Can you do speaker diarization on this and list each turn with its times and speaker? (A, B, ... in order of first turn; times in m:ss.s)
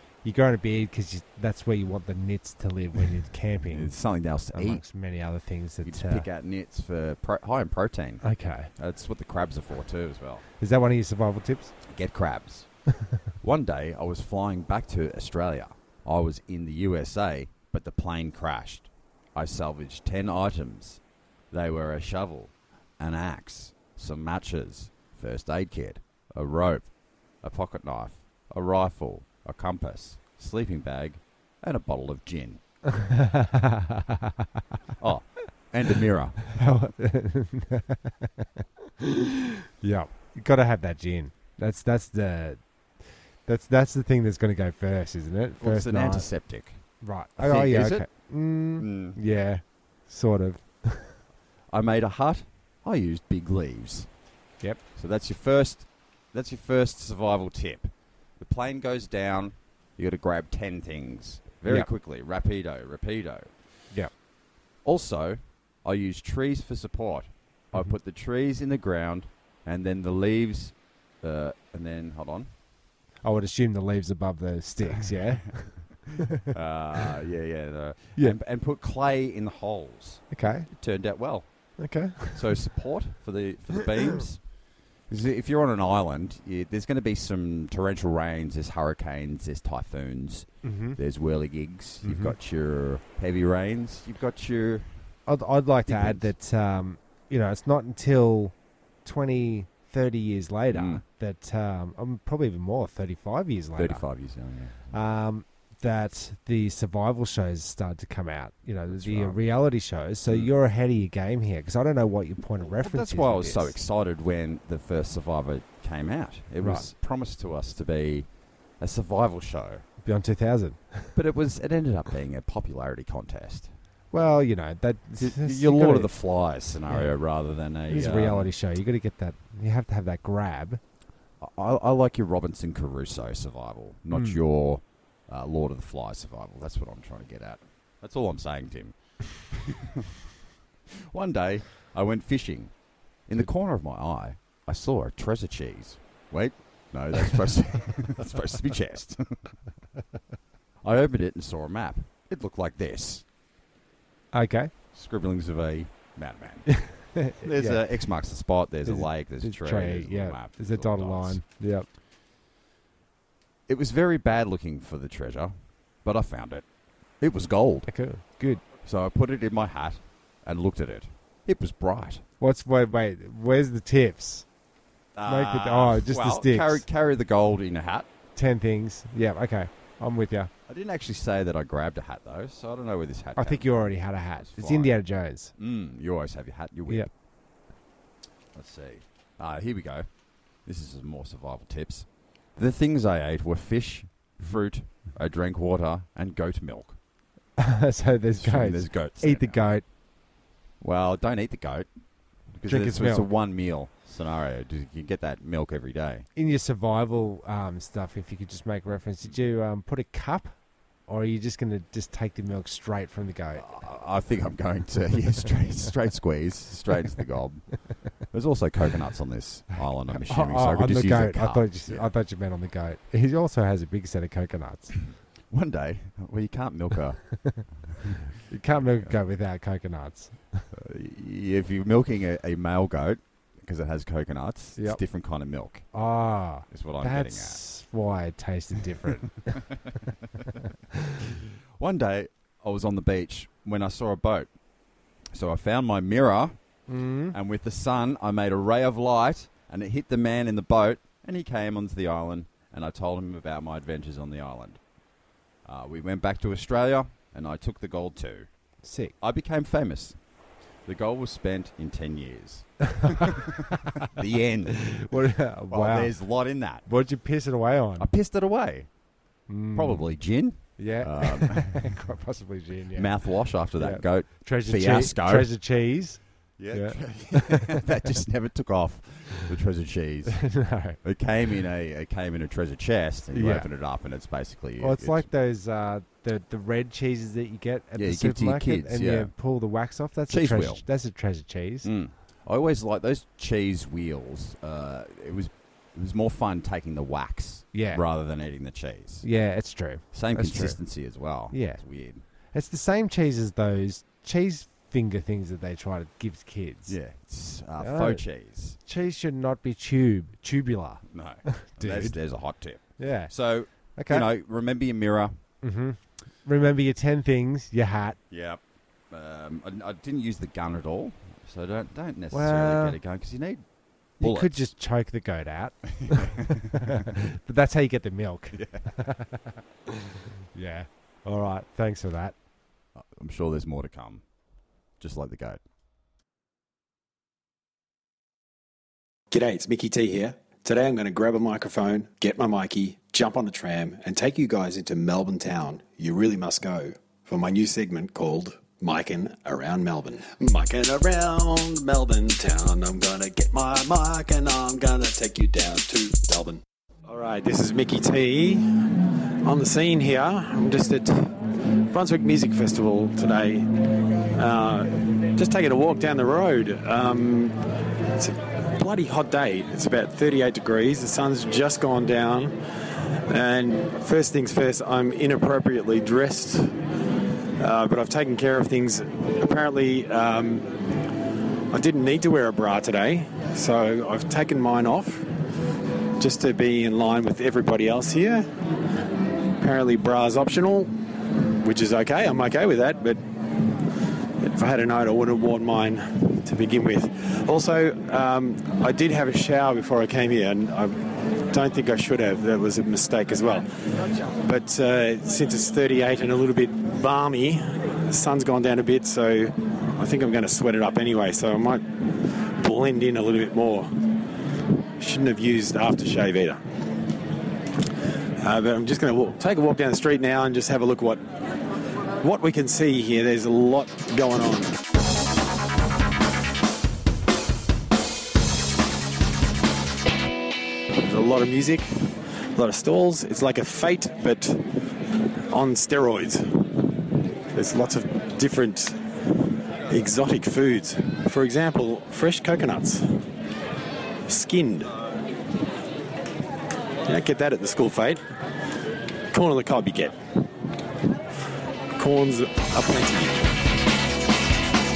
0:00.2-0:03.9 A
0:03.7-0:04.8 B
0:04.5-0:06.2 A
0:05.8-0:08.2 B
0:08.2-0:08.7 A
0:08.8-0:10.4 B
0:10.6-0:11.7 A
0:11.8-0:12.7 B
0:13.4-0:21.0 B
0:21.5-0:26.9 B
0:27.4-0:32.6 B
0:32.9-0:34.4 A
0:35.0-0:36.5 B
0:36.5-0:38.5 A
0:39.0-0:42.6 A
0:43.4-0:46.3 A
0:45.6-0:46.8 B
0:47.0-0:51.2 A
0:47.4-0:48.1 B
0:48.8-0:49.2 B
0:51.7-0:54.1 B
0:54.9-1:03.5 B
1:04.8-1:12.5 B
1:13.2-1:16.4 A
1:15.0-1:15.5 B
1:16.2-1:21.4 B
1:20.3-1:20.7 A
1:21.8-1:22.4 A
1:22.3-1:24.4 B
1:25.1-1:35.0 B
1:30.6-1:31.0 A
1:32.0-1:32.3 A
1:35.2-1:44.0 A
1:35.9-1:36.3 B
1:40.7-1:41.0 B
1:43.8-1:44.9 B
1:44.9-1:53.7 A
1:48.9-1:49.4 B
1:52.7-1:58.3 B
1:58.8-1:59.8 B
2:00.0-2:01.2 A
2:01.2-2:03.7 B
2:04.1-2:06.1 A
2:05.2-2:08.5 B
2:07.9-2:10.8 A
2:11.4-2:18.9 B
2:14.1-2:14.4 A
2:19.5-2:20.1 B
2:20.9-2:22.7 B
2:23.3-2:29.5 B
2:30.8-2:33.2 B
2:34.3-2:34.7 A
2:34.9-2:41.4 B
2:36.7-2:37.8 A
2:38.8-2:41.9 A
2:43.7-2:45.5 B
2:46.0-2:46.6 B
2:47.2-2:47.9 B
2:47.9-2:48.6 A
2:48.6-2:52.2 B
2:52.4-2:54.5 A
2:55.1-2:58.1 B
2:55.2-2:56.8 A
2:58.4-3:00.5 A
3:00.7-3:05.0 B
3:03.4-3:05.5 A
3:05.6-3:07.1 B
3:08.5-3:10.1 B
3:10.6-3:17.0 B
3:17.6-3:19.8 A
3:18.3-3:19.6 B
3:20.8-3:21.9 B
3:22.5-3:26.2 B
3:22.7-3:23.3 A
3:26.3-3:30.5 A
3:31.1-3:33.6 A
3:33.6-3:37.7 B
3:38.3-3:42.1 B
3:40.1-3:45.0 A
3:45.5-3:47.2 B
3:48.4-3:50.7 A
3:50.7-3:55.8 B
3:55.9-3:59.7 A
3:56.7-3:57.6 B
4:01.8-4:04.5 B
4:05.3-4:06.5 B
4:06.9-4:07.3 A
4:07.3-4:14.8 B
4:15.6-4:18.5 B
4:18.8-4:19.1 A
4:19.2-4:20.2 B
4:20.8-4:25.1 B
4:23.0-4:24.0 A
4:24.7-4:26.1 A
4:25.7-4:26.8 B
4:26.8-4:28.1 A
4:28.0-4:28.9 B
4:29.5-4:30.0 A
4:29.7-4:31.9 B
4:30.8-4:33.1 A
4:32.9-4:35.5 B
4:33.8-4:37.9 A
4:36.6-4:40.4 B
4:40.3-4:41.0 A
4:41.0-4:45.2 B
4:43.3-4:43.7 A
4:44.8-4:51.9 A
4:48.0-4:49.3 B
4:50.3-4:50.8 B
4:51.8-4:59.2 B
4:57.7-4:58.0 A
4:59.2-5:00.8 A
5:00.1-5:02.2 B
5:01.5-5:01.8 A
5:02.5-5:07.0 A
5:06.9-5:08.8 B
5:07.8-5:08.2 A
5:08.8-5:12.2 A
5:11.1-5:15.3 B
5:13.0-5:13.3 A
5:14.0-5:14.3 A
5:15.6-5:18.2 A
5:18.3-5:23.6 B
5:22.3-5:23.0 A
5:24.2-5:32.3 A
5:24.2-5:24.6 B
5:26.0-5:27.2 B
5:28.5-5:28.8 B
5:33.0-5:34.2 B
5:35.0-5:35.6 B
5:39.3-6:01.3 C
6:01.9-6:03.8 C
6:04.3-6:07.6 C
6:08.2-6:12.6 C
6:13.3-6:16.8 C
6:17.6-6:20.7 C
6:21.7-6:25.3 C
6:26.2-6:28.5 C
6:29.6-6:30.9 C
6:31.6-6:33.2 C
6:34.4-6:43.7 C
6:44.4-6:54.0 C
6:55.0-6:56.6 C
6:58.4-7:01.2 C
7:02.2-7:04.8 C
7:11.0-7:14.7 C
7:15.5-7:16.9 C
7:17.5-7:23.2 C
7:24.3-7:25.0 C
7:27.0-7:28.2 C
7:29.3-7:30.2 C
7:32.0-7:33.5 C